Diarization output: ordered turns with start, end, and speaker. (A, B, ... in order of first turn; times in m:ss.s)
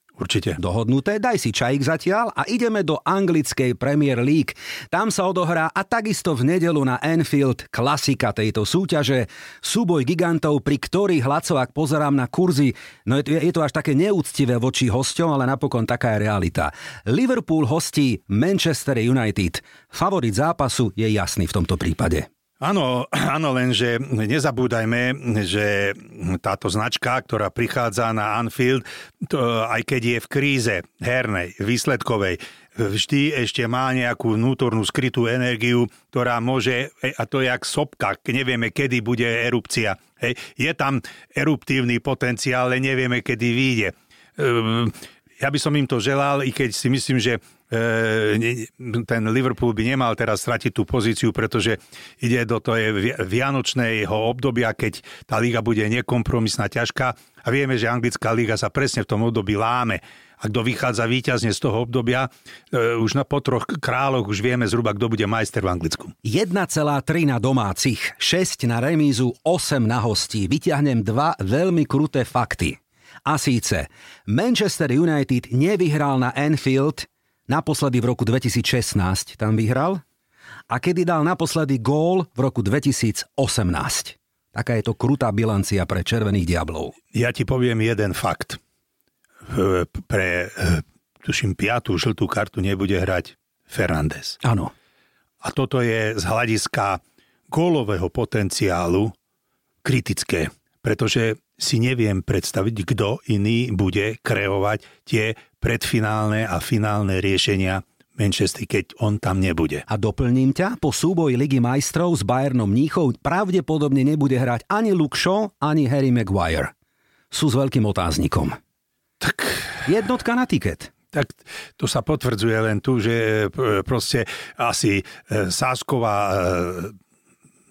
0:00.2-0:00.6 A
0:00.6-0:22.3 B
0:22.6-1:06.1 A
1:06.2-1:20.0 B
1:20.7-1:27.0 B
1:27.1-1:28.6 A
1:29.4-1:34.4 A
1:34.4-1:34.7 B
1:35.4-1:39.1 A
1:39.8-1:49.8 A
1:49.9-1:56.7 B
1:57.3-1:58.6 B
1:59.2-1:59.8 A
1:59.8-2:00.9 B
2:01.1-2:06.9 A